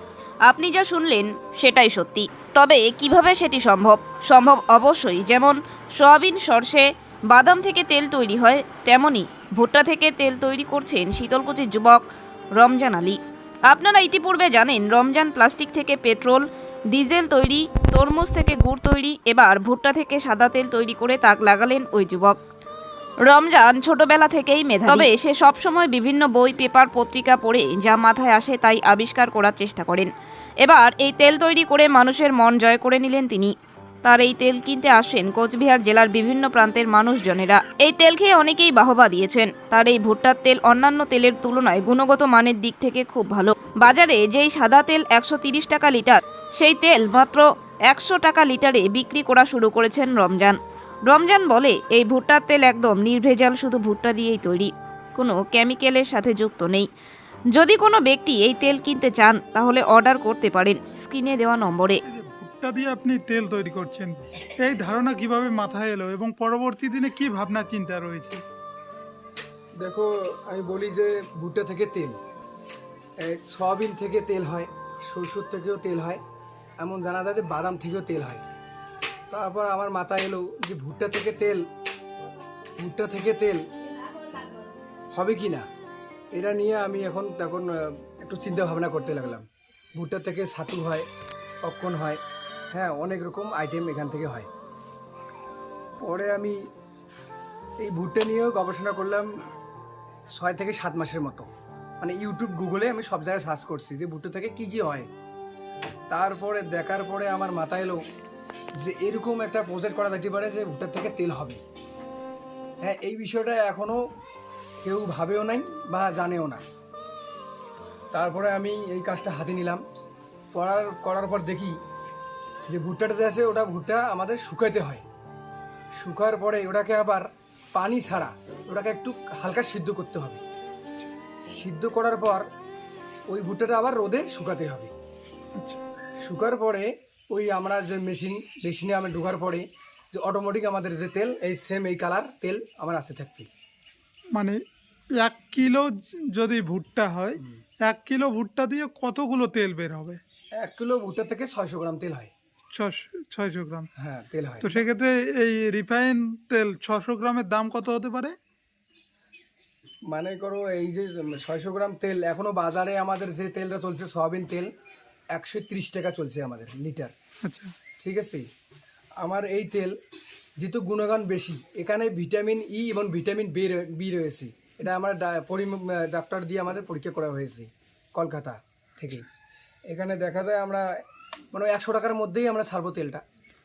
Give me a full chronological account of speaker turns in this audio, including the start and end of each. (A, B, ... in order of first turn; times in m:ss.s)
0:00.5-0:12.0 A
0:12.6-0:22.4 A
0:23.2-0:30.1 A
0:30.6-0:33.5 A
0:34.0-0:50.6 A
0:51.1-0:56.9 A
0:57.5-1:02.0 A
1:02.1-1:08.4 B
1:09.8-1:12.2 C
1:13.2-1:16.2 C
1:16.8-1:18.4 C
1:19.3-1:21.6 C
1:22.8-1:23.6 C
1:25.1-1:25.7 C
1:26.3-1:29.4 C
1:30.0-1:31.1 C
1:31.6-1:32.2 C
1:32.7-1:34.5 C
1:36.0-1:36.6 C
1:37.8-1:39.3 C
1:40.3-1:41.5 C
1:42.0-1:45.1 C
1:46.1-1:48.0 C
1:48.8-1:51.6 C
1:52.8-1:54.0 C
1:54.8-1:56.6 C
1:58.1-1:59.8 C
2:00.5-2:01.8 C
2:02.7-2:05.0 C
2:06.0-2:10.4 C
2:11.5-2:12.4 C
2:13.3-2:14.9 C
2:16.2-2:23.5 C
2:25.2-2:30.2 B
2:30.6-2:32.3 C
2:32.8-2:33.9 B
2:34.0-2:34.8 C
2:34.6-2:38.3 B
2:40.1-2:44.7 C
2:45.3-2:47.1 C
2:47.4-2:47.7 B
2:48.0-2:48.4 C
2:49.2-2:49.9 C
2:50.6-2:59.2 C
2:59.9-3:00.9 C
3:01.5-3:03.2 C